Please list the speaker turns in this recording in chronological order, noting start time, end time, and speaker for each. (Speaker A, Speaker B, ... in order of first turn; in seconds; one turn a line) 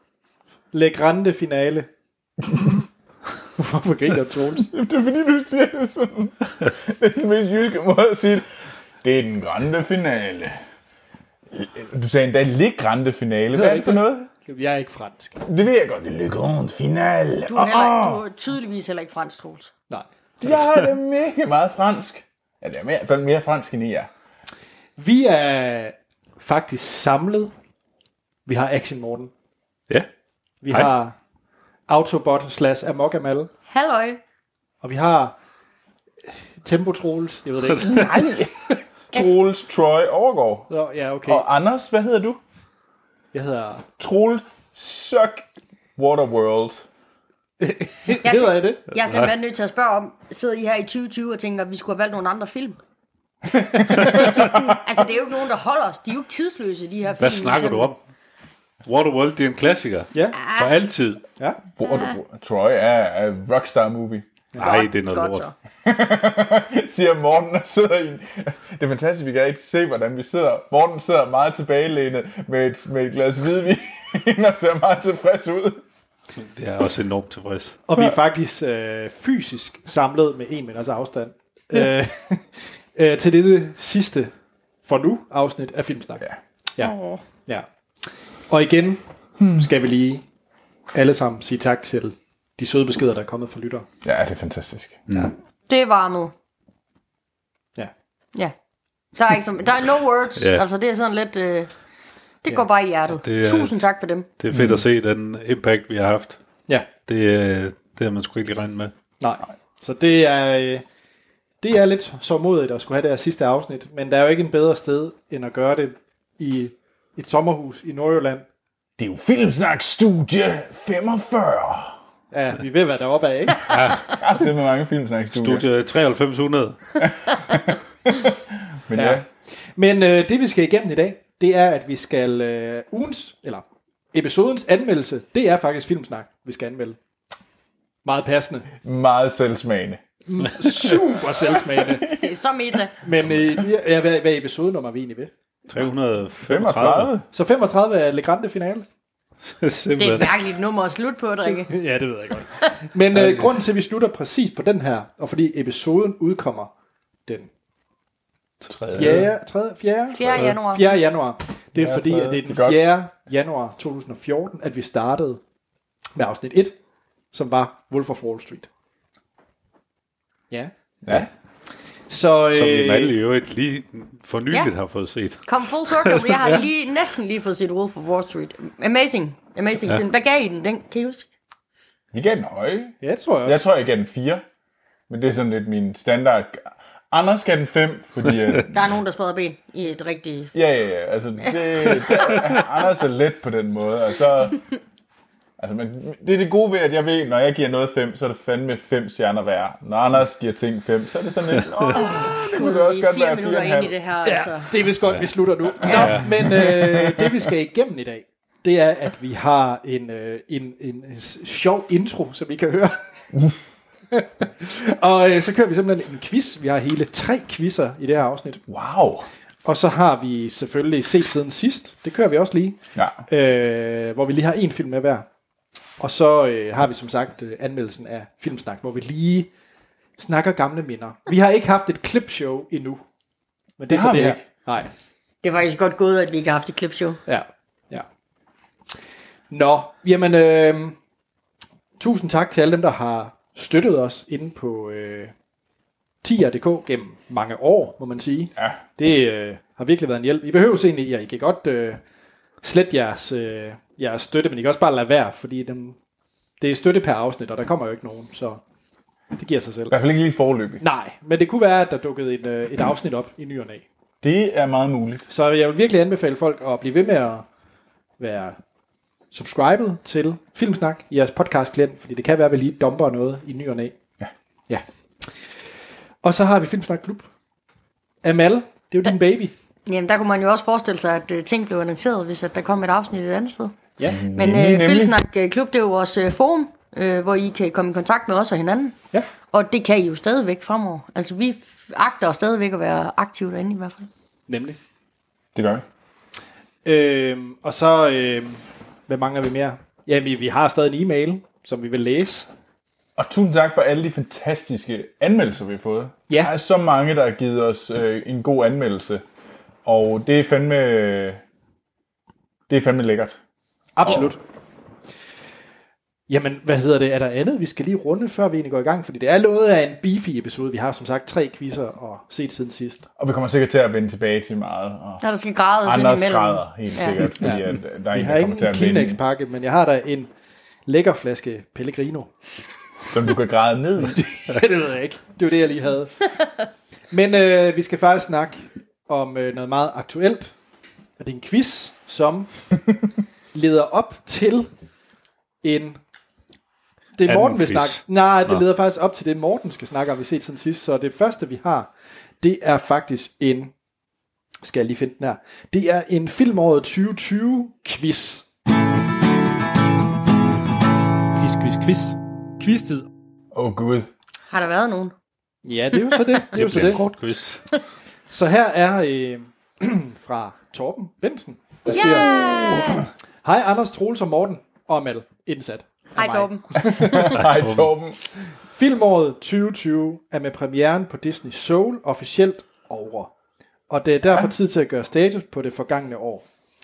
Speaker A: 0.7-1.9
Speaker A: 3.6-4.7
Speaker B: 4.6-8.5
Speaker B: 9.0-10.6
Speaker B: 11.5-14.3
Speaker A: 13.5-15.4
Speaker B: 15.4-18.2
Speaker C: 17.5-19.7
Speaker A: 19.9-20.7
Speaker B: 20.4-24.1
Speaker A: 25.0-27.5
Speaker A: 28.5-29.3
Speaker A: 30.6-31.2
Speaker A: 31.9-33.5
Speaker C: 33.7-34.2
Speaker A: 34.8-35.4
Speaker A: 36.6-38.4
Speaker B: 37.9-38.5
Speaker B: 39.1-40.7
Speaker A: 40.7-41.5
Speaker B: 41.3-42.4
Speaker A: 43.3-43.9
Speaker B: 44.0-45.5
Speaker B: 46.0-46.9
Speaker A: 47.6-48.8
Speaker C: 48.2-52.8
Speaker B: 53.7-54.8
Speaker C: 53.9-57.9
Speaker D: 57.2-58.0
Speaker D: 58.9-61.2
Speaker C: 60.3-60.8
Speaker B: 61.8-64.3
Speaker C: 61.8-62.1
Speaker D: 64.6-65.5
Speaker C: 64.6-65.5
Speaker B: 65.8-75.8
Speaker D: 76.4-77.8
Speaker A: 77.9-84.3
Speaker A: 84.8-87.0
Speaker C: 86.8-87.2
Speaker A: 87.5-89.0
Speaker B: 89.4-89.7
Speaker A: 89.5-90.2
Speaker A: 90.9-93.9
Speaker B: 94.0-95.0
Speaker C: 95.7-96.3
Speaker C: 99.2-101.7
Speaker D: 100.4-100.7
Speaker C: 102.5-104.3
Speaker D: 103.1-103.8
Speaker D: 104.4-106.4
Speaker B: 104.5-104.8
Speaker D: 107.1-108.9
Speaker A: 109.2-110.8
Speaker A: 111.6-118.5
Speaker B: 119.0-122.0
Speaker A: 122.3-123.6
Speaker D: 123.7-124.1
Speaker B: 124.1-125.7
Speaker D: 125.3-127.0
Speaker B: 127.5-129.2
Speaker A: 128.9-129.2
Speaker A: 129.8-137.0
Speaker A: 138.1-138.7
Speaker B: 138.8-140.0
Speaker A: 140.3-142.1
Speaker C: 142.0-143.0
Speaker A: 143.0-145.3
Speaker D: 145.7-147.1
Speaker B: 146.5-147.2
Speaker A: 147.3-148.9
Speaker D: 149.4-150.4
Speaker C: 150.0-151.7
Speaker A: 151.6-156.7
Speaker D: 158.7-159.3
Speaker A: 158.9-165.4
Speaker B: 159.0-159.2
Speaker C: 160.1-160.8
Speaker B: 161.8-162.8
Speaker A: 166.2-166.8
Speaker A: 167.3-168.7
Speaker A: 170.5-171.3
Speaker B: 171.0-171.3
Speaker A: 172.1-173.2
Speaker D: 172.5-176.7
Speaker C: 175.5-181.3
Speaker B: 182.1-184.4
Speaker A: 183.0-183.6
Speaker B: 185.1-188.9
Speaker C: 188.7-190.5
Speaker B: 190.5-194.7
Speaker C: 191.4-192.6
Speaker B: 195.6-203.9
Speaker C: 201.9-204.7
Speaker A: 204.2-213.0
Speaker D: 205.8-206.7
Speaker C: 205.8-206.2
Speaker B: 206.6-207.2
Speaker A: 214.1-218.6
Speaker B: 218.7-219.3
Speaker A: 219.7-225.3
Speaker B: 222.9-223.2
Speaker A: 226.0-229.5
Speaker A: 230.2-233.0
Speaker A: 233.8-234.9
Speaker B: 233.9-234.4
Speaker C: 235.4-237.2
Speaker A: 237.3-238.1
Speaker A: 239.5-241.0
Speaker A: 242.0-245.3
Speaker A: 246.2-252.0
Speaker A: 252.6-256.0
Speaker A: 256.6-258.6
Speaker A: 259.3-259.9
Speaker B: 259.9-260.8
Speaker A: 260.8-263.9
Speaker B: 264.2-265.2
Speaker A: 265.3-267.4
Speaker A: 268.2-268.6
Speaker A: 269.3-274.0
Speaker A: 274.7-275.3
Speaker A: 276.2-277.3
Speaker A: 278.2-279.6
Speaker C: 279.9-283.8
Speaker B: 284.1-285.2
Speaker C: 284.3-289.0
Speaker C: 289.5-294.1
Speaker A: 294.5-294.8
Speaker B: 295.6-295.8
Speaker A: 296.9-302.5
Speaker B: 303.2-309.2
Speaker B: 309.9-311.4
Speaker B: 312.7-313.4
Speaker A: 314.0-314.4
Speaker A: 316.3-323.1
Speaker B: 323.2-325.2
Speaker C: 325.2-327.3
Speaker B: 325.8-329.2
Speaker A: 327.4-330.3
Speaker A: 330.9-332.3
Speaker B: 333.1-334.3
Speaker A: 334.4-336.3
Speaker A: 337.1-340.6
Speaker A: 341.2-342.5
Speaker A: 343.5-344.7
Speaker A: 345.6-346.0
Speaker A: 347.2-353.7
Speaker D: 347.3-348.6
Speaker A: 354.6-358.5
Speaker A: 361.4-363.1
Speaker B: 363.5-364.1
Speaker C: 364.5-365.1
Speaker A: 365.6-367.0
Speaker D: 366.5-367.6
Speaker A: 368.3-372.4
Speaker C: 371.9-373.1
Speaker B: 372.0-373.1
Speaker A: 373.4-377.5
Speaker C: 376.2-377.4
Speaker B: 376.9-378.2
Speaker D: 377.3-377.9
Speaker A: 378.6-383.3
Speaker A: 383.9-386.5